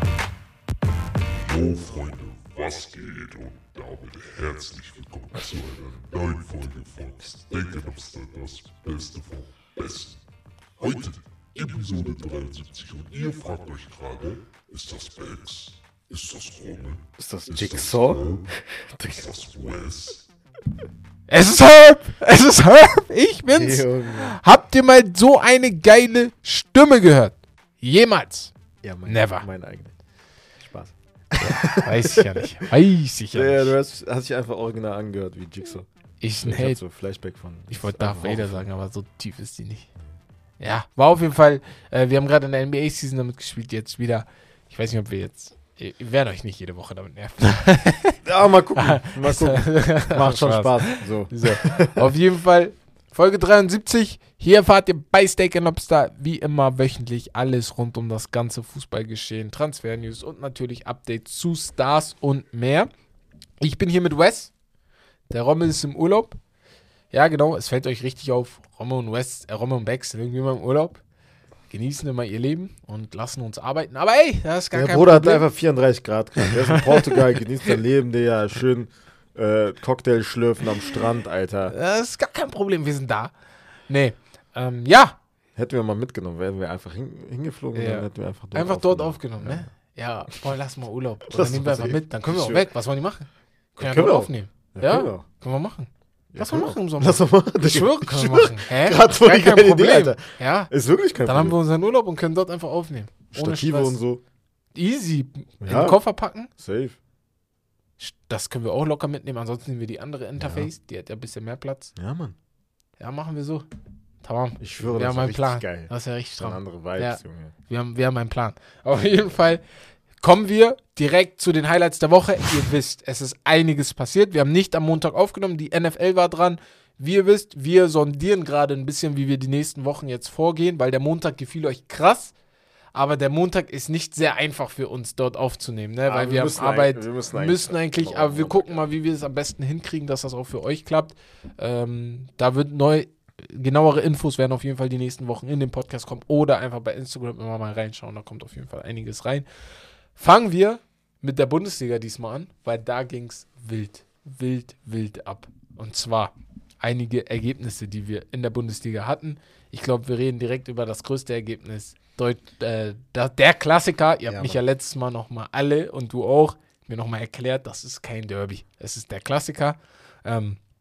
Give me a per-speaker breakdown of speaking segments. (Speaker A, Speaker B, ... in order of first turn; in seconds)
Speaker A: 1.4-10.2, 10.8-18.5, 19.1-20.2
Speaker B: 17.2-19.2, 23.5-24.4, 28.8-29.9, 30.6-32.5, 33.3-35.9, 36.4-38.6, 48.2-52.1, 74.7-81.7, 85.5-89.6, 91.3-92.7, 93.8-95.2, 96.3-101.5, 103.3-104.2, 105.6-106.0, 106.5-107.0, 110.4-110.7, 112.0-112.3, 114.6-117.5, 136.1-138.9, 164.3-164.6
Speaker C: 21.3-28.5, 29.1-29.4, 31.4-33.7, 36.2-36.8, 37.7-39.9, 40.6-48.2, 48.8-62.9, 63.6-64.5, 65.3-66.4, 67.1-71.0, 71.7-75.5, 76.4-77.7, 81.7-83.3, 83.9-85.2, 87.7-100.7, 101.2-104.0, 104.7-106.5, 108.0-111.9, 113.0-113.7, 114.2-119.6, 120.2-132.3, 132.9-149.4, 150.2-170.6